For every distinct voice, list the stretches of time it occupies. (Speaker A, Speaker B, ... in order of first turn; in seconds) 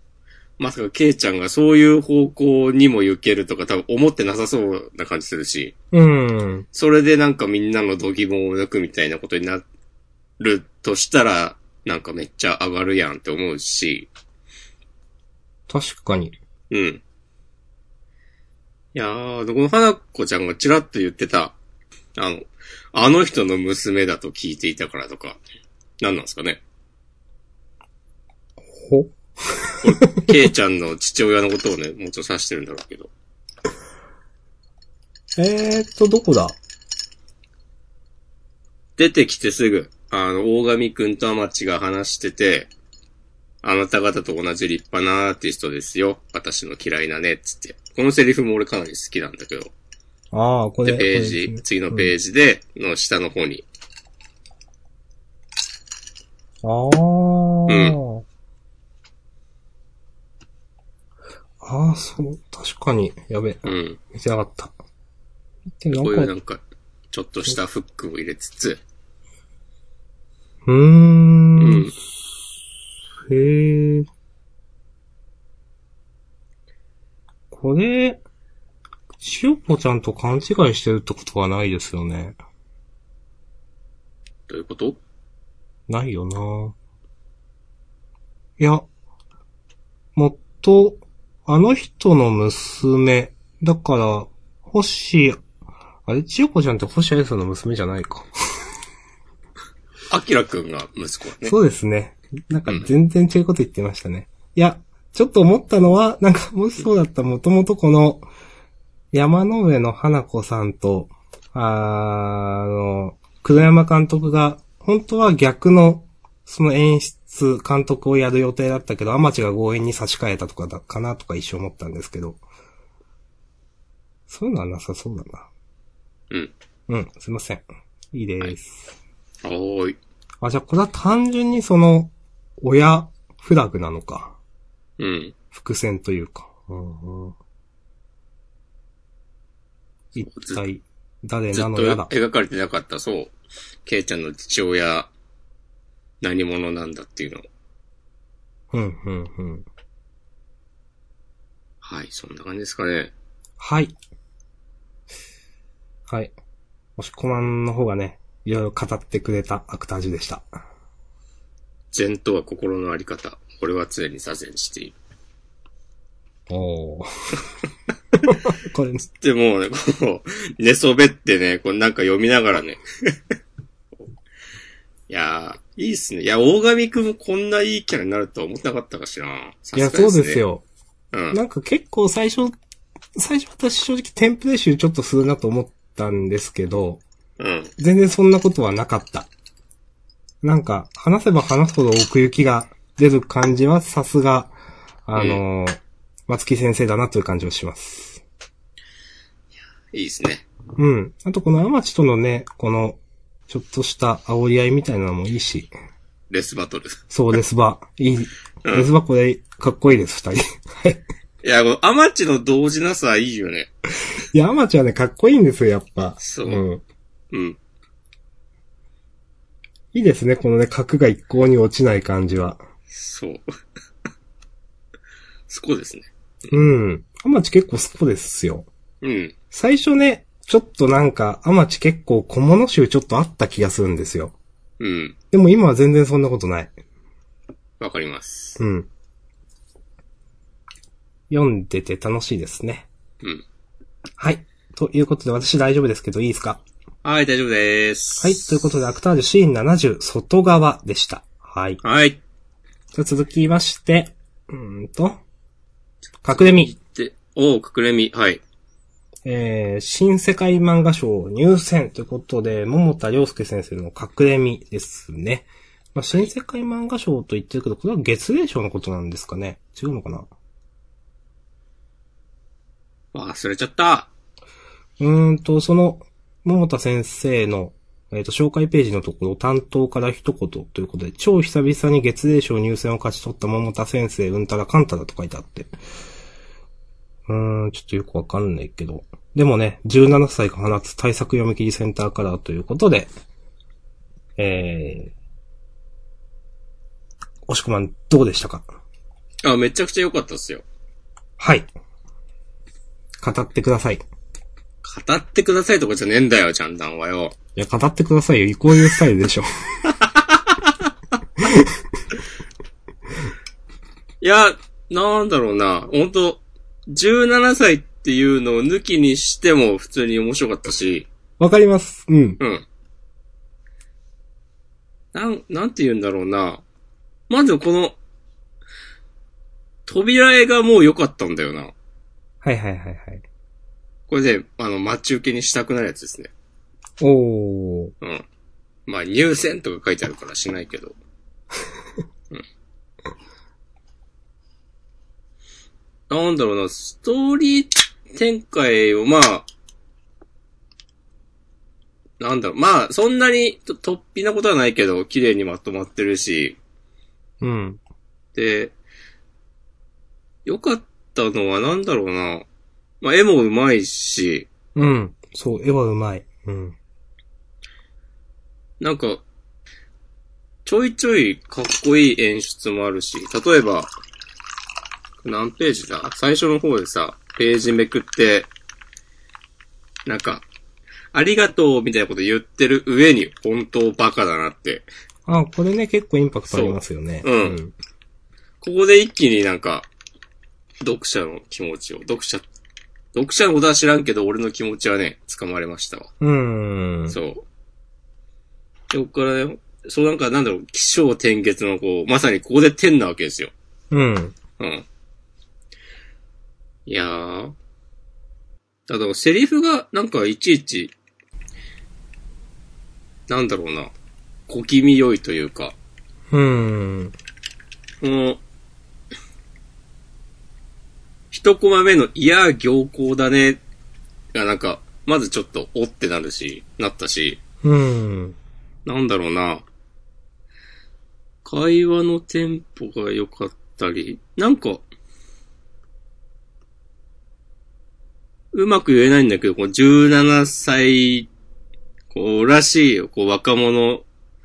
Speaker A: 0.6-5.7, 6.7-9.6, 10.4-14.1, 16.7-17.0, 18.9-21.6, 22.1-25.4, 26.0-26.6, 29.8-33.1, 39.0-42.7, 43.6-49.7, 50.9-53.6, 57.7-58.0, 63.6-64.0, 65.9-68.8, 71.6-71.9, 84.5-85.0, 100.1-101.5, 129.4-130.0, 135.0-135.3, 140.2-140.6, 141.5-143.3, 143.8-145.1, 146.2-147.4, 151.8-153.1, 161.9-164.9, 169.2-172.8, 175.1-180.4, 181.1-181.4, 187.4-187.7, 195.1-195.4, 199.9-200.4, 206.3-207.0, 211.4-213.7, 216.2-216.6, 217.3-217.6, 222.9-223.4, 225.5-226.1, 229.0-229.3, 234.8-235.2, 237.8-238.6, 247.0-248.4, 251.8-252.2, 256.3-258.4, 273.1-274.1, 299.4-300.6, 304.8-307.3, 310.0-310.7, 314.2-321.1, 322.4-322.6, 325.1-326.6, 327.3-328.0, 329.9-331.7, 334.1-336.3, 338.9-340.9, 346.1-349.5, 352.2-356.6, 358.3-358.7, 360.4-362.4, 363.0-364.5, 368.8-369.2, 370.6-373.9, 375.2-378.5, 380.1-380.4, 381.1-384.9, 386.5-387.6, 388.6-389.9, 390.8-392.4, 393.1-396.1, 397.1-397.4, 398.9-403.5, 404.6-404.8, 406.9-407.5, 408.9-410.9, 413.3-413.9, 414.5-415.8, 418.0-418.4, 421.3-423.6, 424.3-427.4, 428.9-429.6, 431.4-434.8, 438.5-441.3, 442.1-444.0
Speaker B: 5.9-6.7, 15.7-16.4, 28.7-30.3, 35.4-36.6, 50.3-52.1, 56.6-58.2, 61.6-64.7, 65.8-66.3, 70.7-71.9, 73.3-74.1, 77.5-78.2, 79.2-82.4, 85.9-86.7, 88.6-88.8, 90.1-95.4, 96.0-98.3, 101.4-108.2, 109.1-122.4, 124.3-125.5, 126.9-129.0, 130.4-134.3, 135.5-137.3, 140.1-142.1, 148.7-149.7, 153.6-153.9, 156.1-156.3, 157.0-160.5, 166.5-167.1, 168.2-169.0, 179.7-180.7, 181.3-182.5, 183.1-187.0, 187.8-189.3, 190.4-194.5, 195.1-198.2, 200.8-205.7, 207.1-211.0, 214.3-216.8, 219.9-222.6, 226.5-228.7, 229.5-234.3, 235.3-236.7, 238.6-238.9, 241.3-242.9, 244.2-246.6, 248.2-251.8, 252.9-255.2, 256.2-256.7, 259.2-270.3, 275.0-285.8, 287.3-293.1, 294.4-295.1, 297.5-298.7, 301.4-301.7, 303.2-304.0, 307.6-309.5, 311.4-311.7, 321.4-322.4, 332.4-333.2, 337.0-337.9, 357.4-357.8, 364.7-366.8, 385.2-387.7, 396.2-397.1, 403.9-404.4, 416.3-417.1, 427.6-428.4